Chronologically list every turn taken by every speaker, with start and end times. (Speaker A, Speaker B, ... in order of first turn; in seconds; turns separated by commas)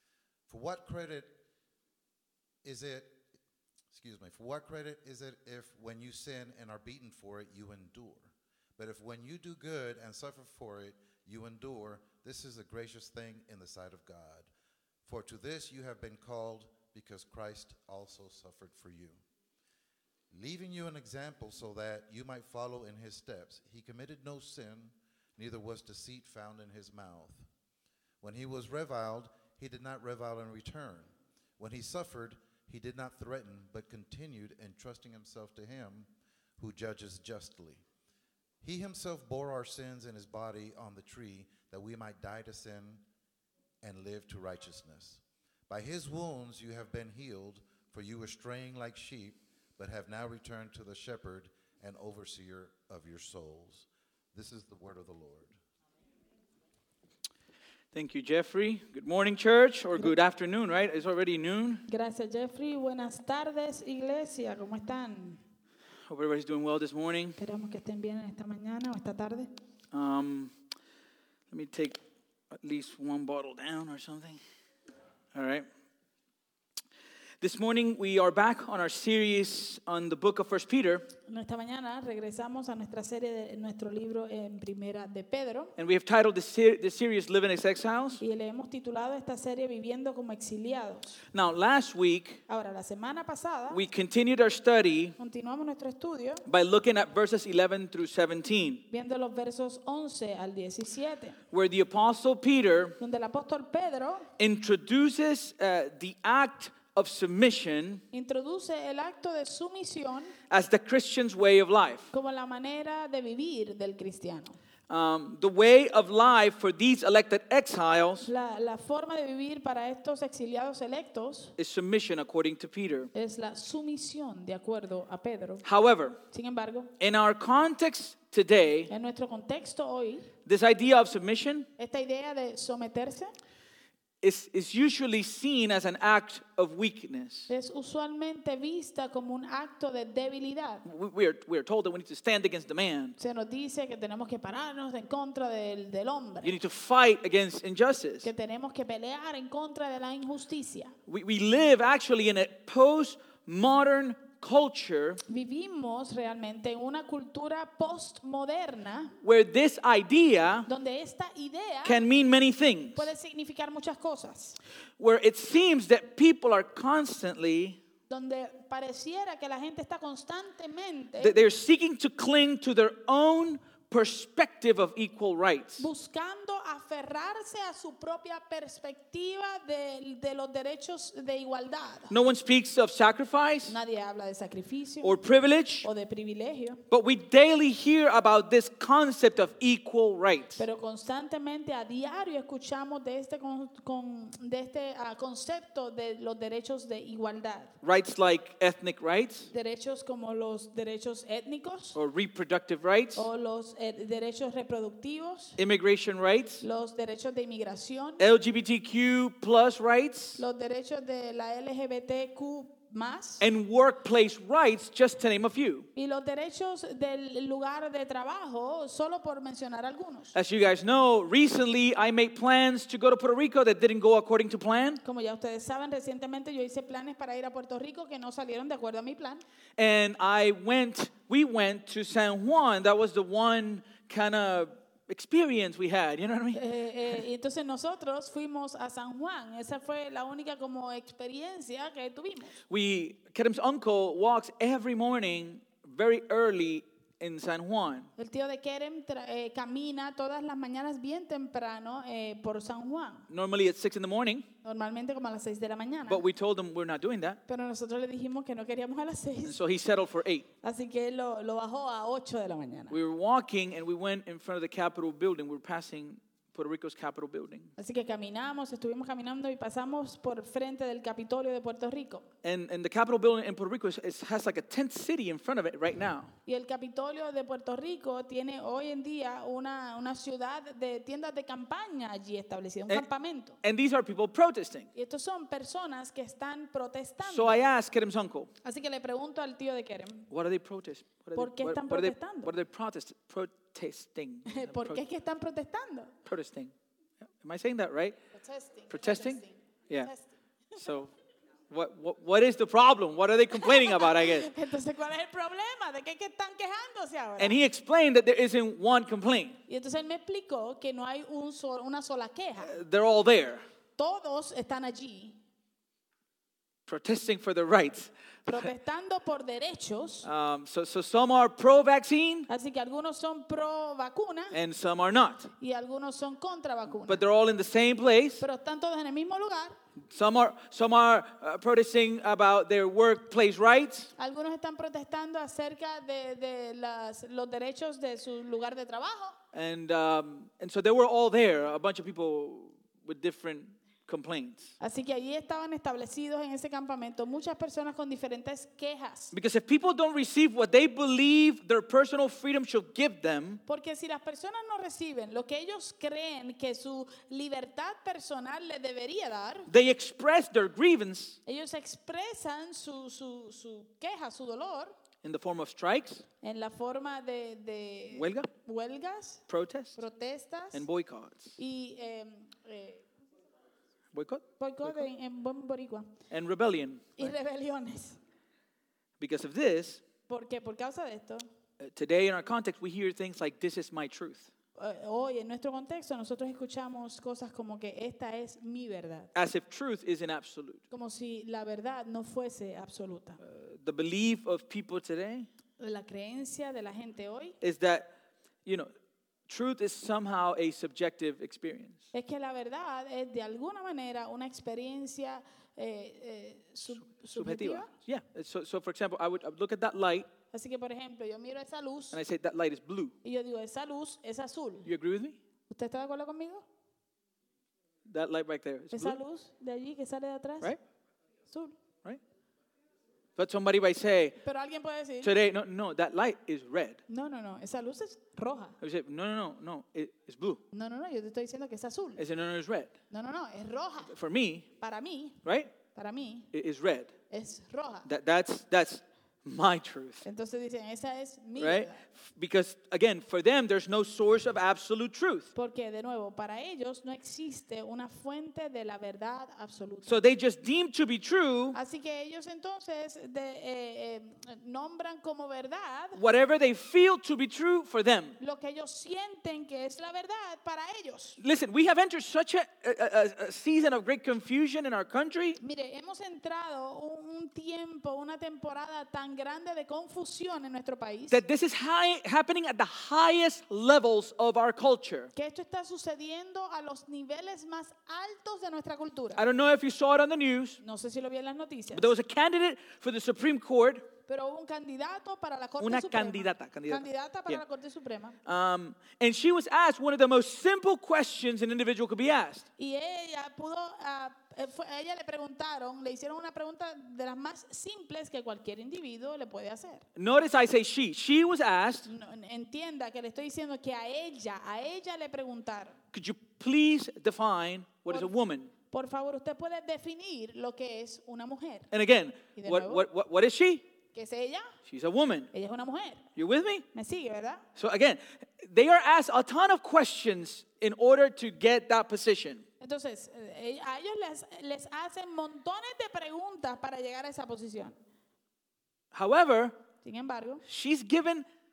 Speaker A: 0.5-1.4, Speaker A: 2.6-3.2, Speaker A: 3.9-14.5, Speaker A: 15.0-19.2, Speaker A: 20.3-27.5, Speaker A: 28.2-37.8, Speaker A: 38.6-43.0, Speaker A: 43.8-55.5, Speaker B: 57.9-61.9, Speaker C: 61.9-65.4, Speaker B: 66.1-67.4, Speaker C: 67.4-69.5, Speaker B: 69.9-70.5, Speaker B: 71.5-72.0, Speaker B: 72.5-74.4, Speaker B: 75.3-75.7, Speaker B: 77.4-81.1, Speaker C: 81.2-85.7, Speaker B: 85.8-88.2, Speaker C: 88.2-91.2, Speaker B: 91.3-92.4, Speaker C: 92.5-93.8, Speaker B: 93.7-95.2, Speaker C: 95.2-96.4, Speaker B: 96.5-98.8, Speaker C: 98.9-101.4, Speaker B: 101.5-103.0, Speaker C: 103.0-104.3, Speaker B: 104.4-108.0, Speaker C: 108.1-110.3, Speaker B: 110.5-112.1, Speaker C: 112.1-114.6, Speaker B: 114.9-118.3, Speaker C: 118.2-121.5, Speaker B: 121.6-123.1, Speaker C: 123.1-125.6, Speaker B: 125.6-126.2, Speaker C: 126.3-126.9, Speaker B: 127.0-128.9, Speaker C: 128.9-130.3, Speaker B: 130.5-131.7, Speaker C: 131.8-133.3, Speaker B: 134.2-137.5, Speaker C: 137.5-140.8, Speaker B: 140.8-143.2, Speaker C: 143.2-146.6, Speaker B: 146.4-148.3, Speaker C: 148.2-150.9, Speaker B: 151.1-155.2, Speaker C: 155.3-159.2, Speaker B: 159.2-160.7, Speaker C: 160.7-162.0, Speaker B: 161.8-163.1, Speaker C: 163.0-164.6, Speaker B: 165.0-167.8, Speaker C: 168.1-171.4, Speaker B: 171.2-175.9, Speaker C: 175.8-182.1, Speaker B: 182.1-183.8, Speaker C: 183.7-185.2, Speaker B: 185.0-185.9, Speaker C: 185.8-186.8, Speaker B: 186.9-190.6, Speaker C: 190.6-197.8, Speaker B: 197.8-199.5, Speaker C: 199.5-202.0, Speaker B: 201.9-203.2, Speaker C: 203.2-205.6, Speaker B: 205.6-206.6, Speaker C: 206.6-208.2, Speaker B: 208.2-210.4, Speaker C: 210.4-213.5, Speaker B: 213.4-215.9, Speaker C: 215.9-220.3, Speaker B: 220.3-225.0, Speaker C: 225.0-229.4, Speaker B: 229.8-236.6, Speaker C: 236.5-242.6, Speaker B: 242.7-248.1, Speaker C: 248.2-253.3, Speaker B: 253.3-254.5, Speaker C: 254.6-256.2, Speaker B: 256.1-257.4, Speaker C: 257.5-259.6, Speaker B: 259.4-260.4, Speaker C: 260.6-263.0, Speaker B: 262.9-267.7, Speaker C: 267.8-272.3, Speaker B: 272.4-276.3, Speaker C: 276.4-283.6, Speaker B: 283.6-284.9, Speaker C: 284.9-287.6, Speaker B: 287.2-288.5, Speaker C: 288.6-290.3, Speaker B: 290.3-295.0, Speaker C: 291.4-292.5, Speaker C: 294.5-296.1, Speaker B: 296.2-296.7, Speaker B: 297.4-298.2, Speaker C: 298.3-300.3, Speaker B: 298.9-300.1, Speaker B: 300.8-301.1, Speaker B: 301.7-304.5, Speaker C: 303.6-307.6, Speaker B: 307.4-309.6, Speaker C: 309.7-312.8, Speaker B: 312.6-313.6, Speaker C: 314.0-315.4, Speaker B: 316.9-318.7, Speaker C: 318.5-320.3, Speaker B: 320.2-322.5, Speaker C: 322.5-324.6, Speaker B: 324.5-325.5, Speaker C: 325.6-327.2, Speaker B: 327.1-328.4, Speaker C: 328.4-329.8, Speaker B: 330.1-334.1, Speaker C: 334.2-339.4, Speaker B: 339.5-344.8, Speaker C: 344.8-349.3, Speaker B: 349.3-353.6, Speaker C: 353.7-359.7, Speaker B: 359.7-361.4, Speaker C: 361.4-364.9, Speaker B: 365.2-366.2, Speaker C: 366.4-370.9, Speaker B: 368.1-368.5, Speaker B: 369.5-370.0, Speaker B: 370.7-371.6, Speaker C: 371.6-373.1, Speaker B: 374.1-375.1, Speaker C: 374.6-376.1, Speaker B: 376.3-377.3, Speaker C: 377.2-378.2, Speaker B: 379.2-380.0, Speaker C: 380.3-381.5, Speaker B: 381.8-384.5, Speaker C: 384.8-389.3, Speaker B: 389.4-390.8, Speaker C: 390.9-393.4, Speaker B: 393.4-395.5, Speaker C: 395.8-397.6, Speaker B: 397.6-398.1, Speaker B: 399.5-402.1, Speaker C: 402.1-407.9, Speaker B: 407.0-410.3, Speaker C: 410.5-412.2, Speaker B: 412.1-413.1, Speaker C: 413.2-414.9, Speaker B: 414.9-415.4, Speaker C: 415.7-416.6, Speaker B: 418.1-419.2, Speaker C: 418.9-420.7, Speaker C: 421.5-421.8, Speaker B: 423.4-424.4, Speaker C: 424.4-425.3, Speaker B: 425.2-427.0, Speaker C: 427.1-428.8, Speaker B: 428.8-430.6, Speaker C: 430.7-432.2, Speaker B: 432.2-432.9, Speaker C: 433.1-434.1, Speaker B: 434.1-434.7, Speaker C: 434.8-435.4, Speaker B: 435.4-435.7, Speaker C: 435.9-436.5, Speaker B: 436.5-437.1, Speaker C: 437.3-438.1, Speaker B: 438.1-440.2, Speaker C: 440.2-442.1, Speaker B: 441.6-445.5, Speaker C: 445.6-450.2, Speaker B: 450.1-451.8, Speaker C: 451.7-456.2, Speaker B: 456.2-458.4, Speaker C: 458.4-461.4, Speaker B: 461.4-465.6, Speaker C: 465.6-471.4, Speaker B: 471.3-475.3, Speaker C: 475.3-479.4, Speaker B: 479.4-480.8, Speaker C: 480.8-482.1, Speaker B: 481.9-484.1, Speaker C: 484.2-488.4, Speaker B: 485.8-487.6, Speaker B: 488.4-492.7, Speaker C: 492.8-500.1, Speaker B: 500.2-502.1, Speaker C: 502.1-506.0, Speaker B: 506.1-508.7, Speaker C: 508.9-511.9, Speaker B: 511.9-513.9, Speaker C: 512.6-513.1, Speaker C: 514.1-514.8, Speaker B: 514.9-515.5, Speaker C: 515.5-516.3, Speaker B: 516.4-516.9, Speaker C: 516.9-517.6, Speaker B: 517.8-522.6, Speaker C: 522.8-528.0, Speaker B: 529.1-529.8, Speaker C: 530.0-530.6, Speaker B: 530.6-531.5